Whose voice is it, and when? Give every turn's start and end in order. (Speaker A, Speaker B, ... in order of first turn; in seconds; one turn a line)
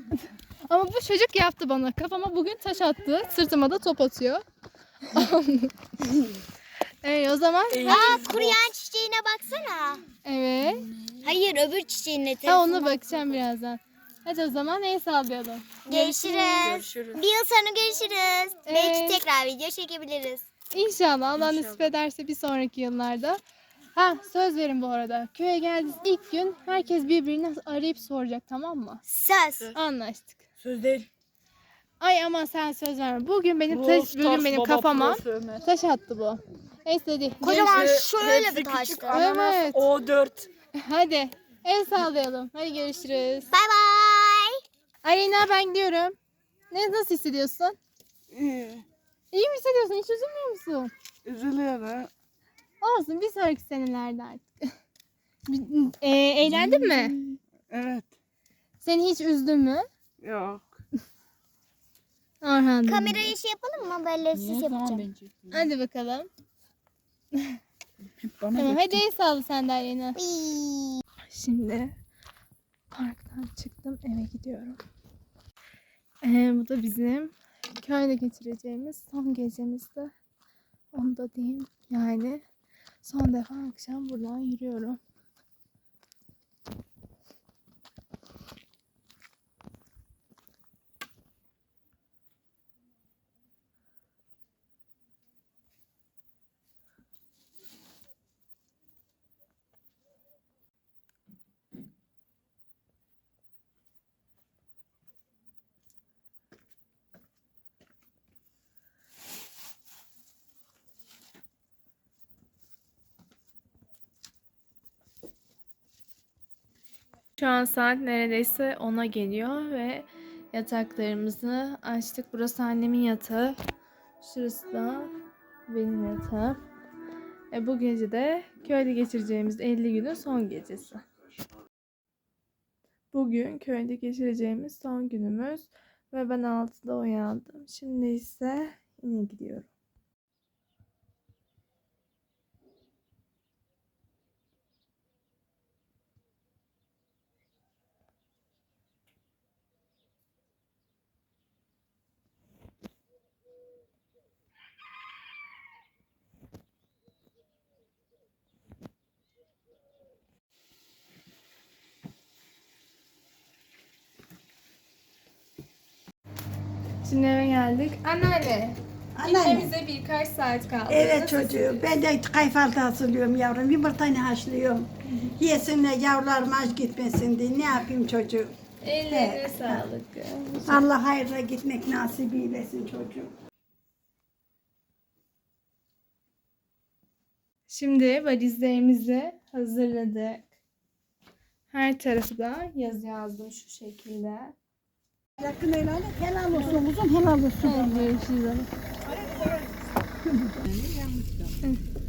Speaker A: 0.7-4.4
Speaker A: 5.1-5.7
Speaker A: 7.0-8.2
Speaker B: 7.7-8.7
Speaker C: 7.8-10.0
Speaker A: 10.2-10.8
Speaker C: 11.2-13.0
Speaker A: 12.4-15.8
Speaker B: 15.9-17.2
Speaker C: 15.9-20.5
Speaker A: 18.6-19.2
Speaker A: 20.7-23.4
Speaker B: 21.4-21.9
Speaker A: 23.9-29.0
Speaker C: 29.1-29.7
Speaker A: 29.7-30.4
Speaker B: 30.6-31.1
Speaker A: 32.0-37.8
Speaker B: 33.7-35.6
Speaker C: 37.4-39.2
Speaker B: 37.4-40.5
Speaker A: 39.1-39.8
Speaker A: 40.8-43.5
Speaker C: 43.5-44.6
Speaker A: 45.0-46.1
Speaker A: 46.7-47.8
Speaker B: 48.3-48.9
Speaker A: 49.3-50.9
Speaker B: 51.2-52.1
Speaker A: 52.8-54.5
Speaker A: 55.5-57.1
Speaker B: 56.5-58.1
Speaker A: 58.8-59.9
Speaker B: 60.2-60.7
Speaker A: 62.4-63.3
Speaker C: 62.9-65.1
Speaker B: 64.3-65.7
Speaker A: 65.5-66.3
Speaker D: 68.2-69.0
Speaker A: 68.5-70.2
Speaker C: 70.2-71.0
Speaker A: 71.3-72.0
Speaker A: 72.9-74.8
Speaker A: 76.2-80.1
Speaker A: 80.9-82.4
Speaker A: 83.0-85.0
Speaker A: 117.4-123.6
Speaker A: 124.2-125.1
Speaker A: 125.7-126.6
Speaker A: 127.5-131.0
Speaker A: 133.1-139.7
Speaker A: 167.0-171.8
Speaker D: 169.1-169.7
Speaker D: 170.9-178.6
Speaker A: 178.8-180.8
Speaker D: 179.1-179.8
Speaker D: 180.6-183.3
Speaker A: 187.7-190.5
Speaker A: 191.7-194.6
Speaker D: 195.4-198.2
Speaker A: 197.6-198.7
Speaker D: 199.1-199.6
Speaker D: 200.2-201.5